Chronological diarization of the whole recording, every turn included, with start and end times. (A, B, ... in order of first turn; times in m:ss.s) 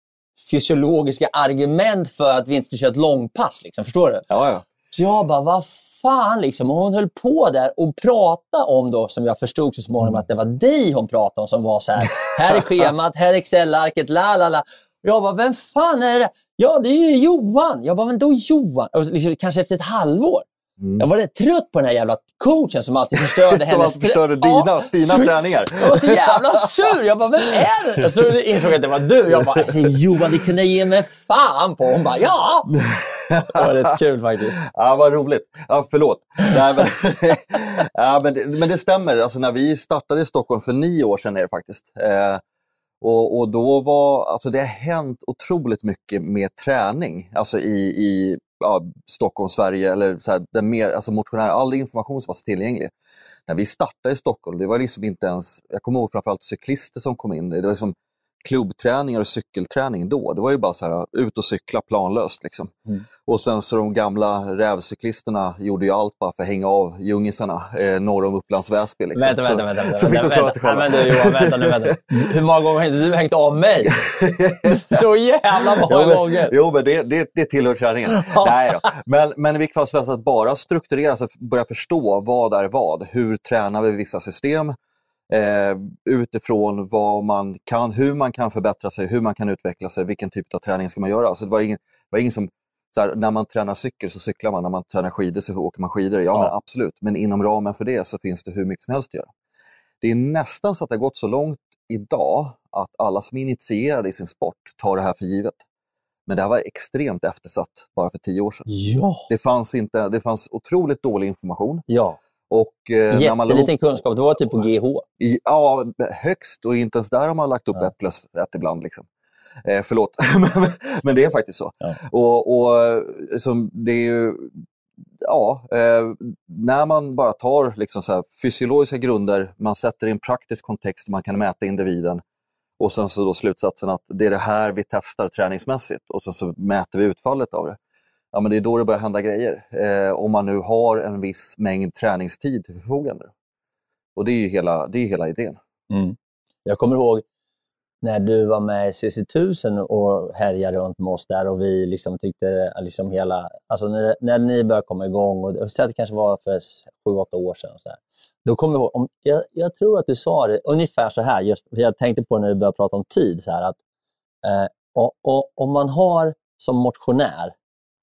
0:00.4-0:04.2 A
0:04.3-0:04.6 B
0:04.9-0:20.4 A
0:20.8-0:21.0 B
0:21.0-0:32.7 A
0:23.2-0:26.8 B
0:28.0-0:28.3 B
0:29.3-0:30.1 B
0:32.7-0:33.9 B
0:33.5-0:34.6 A
0:34.7-0:42.4 B
0:43.0-0:52.9 B
0:53.5-1:02.7 B
1:03.2-1:12.2 B
1:09.1-1:13.9 A
1:13.9-1:15.0 B
1:14.9-1:16.5 A
1:15.6-1:24.7 B
1:18.2-1:18.8 A
1:25.3-1:39.3 B
1:40.0-1:45.6 B
1:46.3-1:48.7 B
1:48.7-1:49.3 A
1:49.3-1:51.8 B
1:51.9-1:52.2 A
1:52.5-1:54.6 B
1:53.1-1:55.0 A
1:55.2-1:59.1 B
1:59.6-2:04.6 B
2:05.2-2:12.2 B
2:12.8-2:17.8 B
2:18.3-2:23.3 B
2:24.2-2:25.6 B
2:25.9-2:27.2 A
2:28.0-2:43.8 A
2:44.4-2:47.5 A